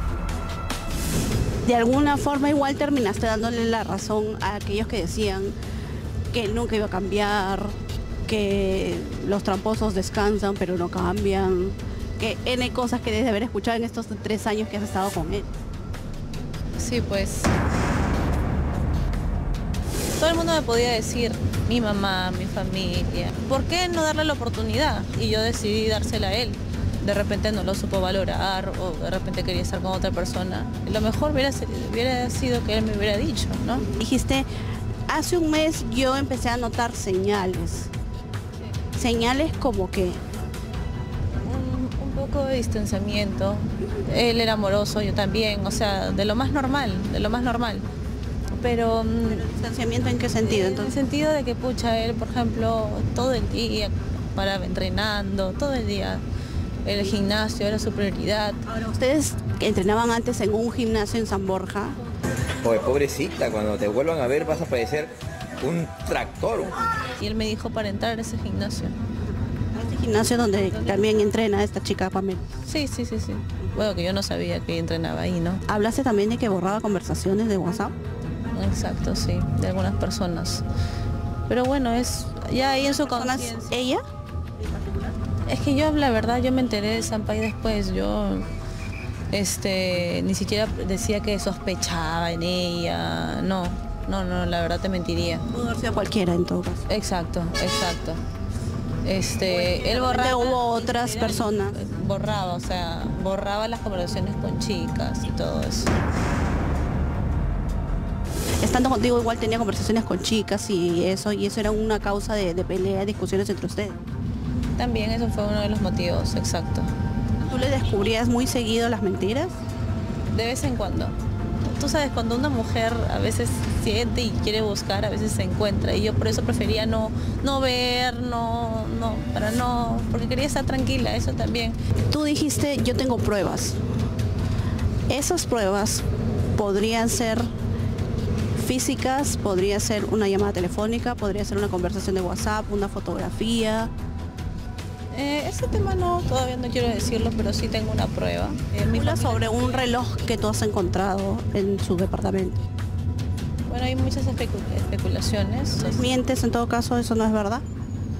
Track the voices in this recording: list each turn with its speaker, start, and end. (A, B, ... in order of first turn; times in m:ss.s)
0:01.6-0:05.5 A
0:06.3-0:07.8 A
0:08.3-0:15.5 A
0:16.8-0:17.5 B
0:20.2-0:33.9 B
0:33.9-0:34.5 A
0:35.1-0:37.9 A
0:39.0-0:40.2 A
0:41.4-0:47.8 B
0:48.6-0:49.5 B
0:49.4-0:51.0 A
0:50.4-0:56.2 B
0:56.8-0:58.6 B
0:58.7-1:02.0 A
1:02.6-1:06.8 C
1:07.2-1:09.0 B
1:09.7-1:12.4 A
1:10.7-1:11.1 B
1:12.6-1:15.6 B
1:15.7-1:17.9 A
1:18.5-1:20.6 B
1:21.5-1:23.7 B
1:22.9-1:24.0 A
1:25.4-1:28.5 B
1:29.3-1:35.5 B
1:35.5-1:36.8 A
1:36.9-1:38.2 B
1:39.0-1:45.9 B
1:39.4-1:41.8 A
1:48.6-1:54.0 A
1:54.8-1:56.9 B
1:57.4-1:59.6 A
2:00.3-2:01.2 B
2:01.7-2:11.8 B
2:12.1-2:13.8 A
2:15.1-2:16.0 A
2:16.6-2:17.5 A
2:18.6-2:23.9 A
2:25.1-2:29.9 B
2:28.9-2:32.6 A
2:33.7-2:36.1 B
2:35.8-2:37.6 A